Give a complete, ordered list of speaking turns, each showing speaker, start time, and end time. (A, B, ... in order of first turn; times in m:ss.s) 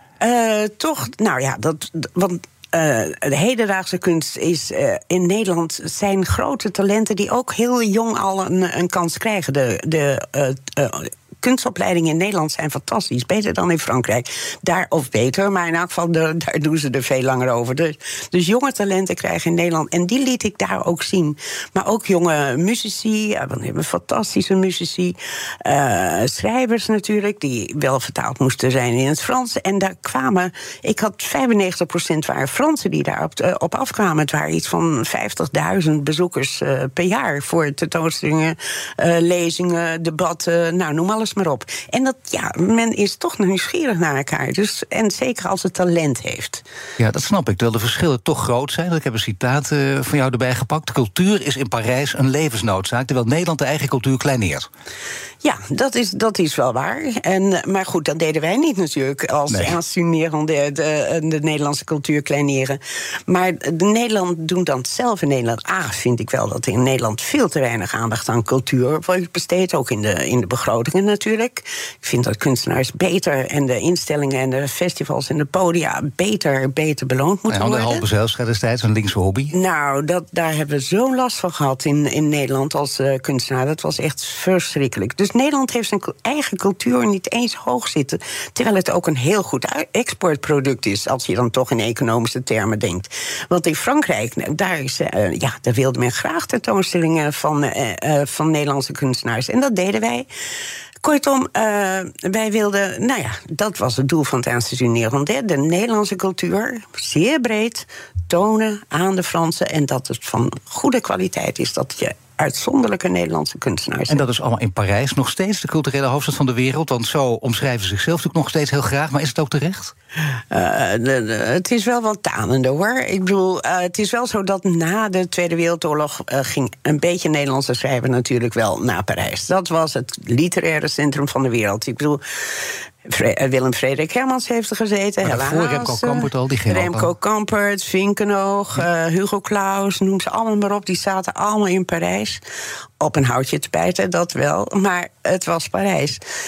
0:00.2-0:46.6 A
0:47.0-0:54.7 B
0:55.4-1:18.0 A
0:59.5-0:59.8 B
1:17.5-1:19.5 B
1:19.5-1:40.3 A
1:41.0-1:54.2 A
1:54.1-1:59.9 B
2:00.5-2:12.2 A
2:13.1-2:22.4 A
2:15.2-2:17.1 B
2:23.0-2:26.2 A